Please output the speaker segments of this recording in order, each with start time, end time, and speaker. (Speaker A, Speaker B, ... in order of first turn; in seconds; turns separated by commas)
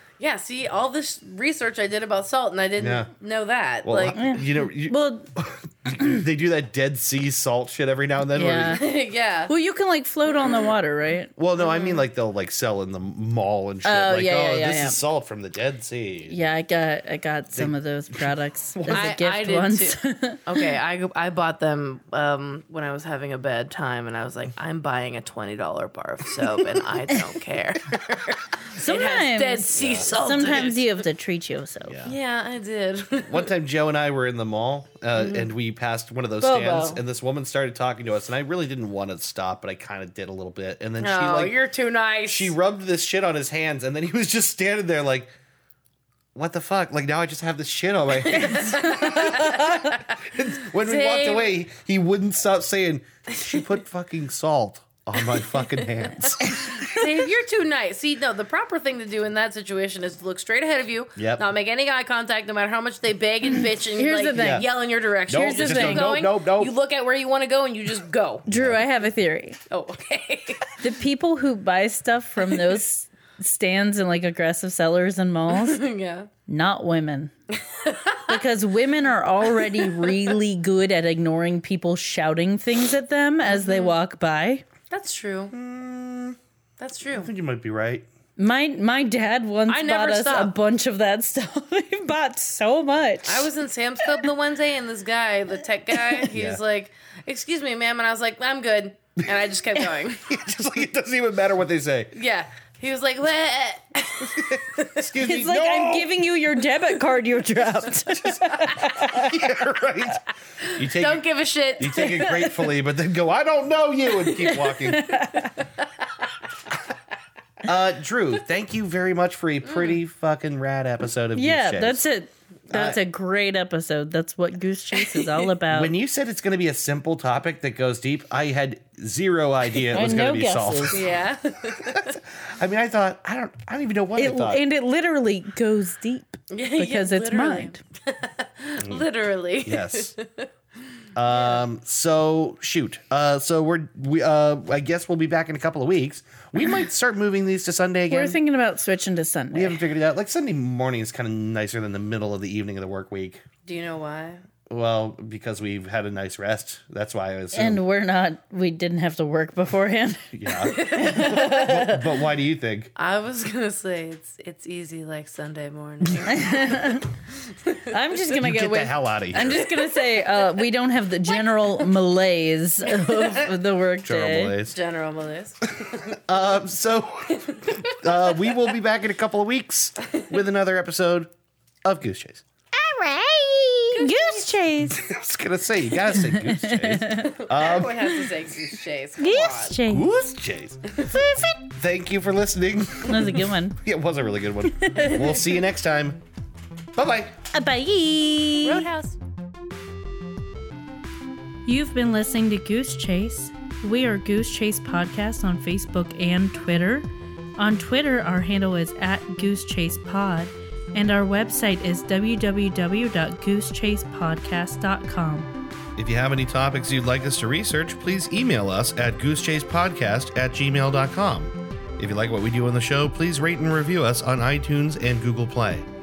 Speaker A: 0.2-4.3, Speaker B: 2.8-3.1, Speaker B: 3.8-8.8, Speaker C: 4.1-5.3, Speaker C: 8.3-8.8, Speaker A: 8.6-9.5, Speaker C: 9.5-11.3, Speaker B: 11.4-16.4, Speaker A: 11.6-12.0, Speaker C: 13.8-15.0, Speaker C: 16.3-20.7, Speaker B: 17.5-19.1, Speaker A: 18.9-31.0, Speaker C: 28.8-32.0, Speaker B: 29.7-30.1, Speaker B: 31.9-32.1, Speaker A: 32.0-33.5, Speaker B: 33.2-41.5, Speaker A: 35.1-35.5, Speaker C: 36.4-37.0, Speaker A: 41.0-42.5, Speaker B: 42.3-45.3, Speaker B: 46.3-56.9, Speaker A: 48.1-51.5, Speaker A: 55.3-56.3, Speaker C: 56.4-57.0, Speaker A: 56.8-68.5, Speaker B: 61.1-61.4, Speaker C: 63.9-64.7, Speaker B: 64.4-64.7, Speaker B: 65.3-66.7, Speaker C: 65.3-66.1, Speaker C: 68.5-69.6, Speaker B: 68.5-68.8, Speaker A: 69.7-70.8, Speaker C: 70.8-75.8, Speaker A: 75.5-76.3, Speaker C: 76.5-77.3, Speaker A: 77.5-78.4, Speaker C: 78.3-84.6, Speaker A: 79.5-80.3, Speaker A: 83.4-84.0, Speaker A: 84.9-85.5, Speaker B: 85.5-86.4, Speaker A: 86.8-87.3, Speaker B: 87.1-88.0, Speaker C: 88.4-93.5, Speaker A: 89.7-90.5, Speaker A: 93.2-100.5, Speaker B: 96.3-96.6, Speaker B: 100.2-102.1, Speaker A: 102.1-105.1, Speaker B: 104.4-106.2, Speaker C: 105.2-109.3, Speaker B: 108.1-110.2, Speaker A: 110.6-112.6, Speaker B: 110.7-111.2, Speaker B: 111.8-115.2, Speaker C: 114.2-115.6, Speaker B: 117.6-122.0, Speaker A: 119.6-120.0, Speaker C: 121.3-125.9, Speaker B: 122.7-123.0, Speaker A: 125.0-125.5, Speaker B: 125.7-131.0, Speaker C: 129.9-131.0, Speaker A: 130.9-132.2, Speaker B: 131.9-134.6, Speaker C: 134.2-137.8, Speaker A: 136.5-140.5, Speaker B: 138.8-139.1, Speaker B: 139.6-140.1, Speaker B: 141.2-148.4, Speaker A: 141.2-141.6, Speaker C: 148.1-149.8, Speaker B: 149.5-153.4, Speaker A: 153.6-154.4, Speaker B: 154.7-157.8, Speaker C: 157.5-162.0, Speaker B: 160.3-162.9, Speaker A: 160.6-161.4, Speaker A: 162.9-168.0, Speaker C: 166.2-167.1, Speaker C: 167.9-174.5, Speaker B: 168.4-169.7, Speaker A: 169.4-170.6, Speaker A: 171.3-171.8, Speaker A: 172.9-173.5, Speaker B: 174.0-174.8, Speaker A: 174.7-176.2, Speaker B: 176.1-181.3, Speaker A: 177.5-177.9, Speaker B: 181.8-182.4, Speaker C: 182.8-185.1, Speaker A: 183.9-184.5, Speaker B: 184.9-188.2, Speaker C: 186.1-187.3, Speaker A: 187.1-189.8, Speaker C: 189.2-190.1, Speaker B: 189.9-190.8, Speaker C: 191.1-191.5, Speaker B: 191.7-196.2, Speaker C: 193.0-193.8, Speaker C: 194.8-195.3, Speaker B: 196.9-197.4, Speaker C: 197.5-198.9, Speaker A: 198.6-199.2, Speaker C: 201.7-215.5, Speaker B: 216.0-225.9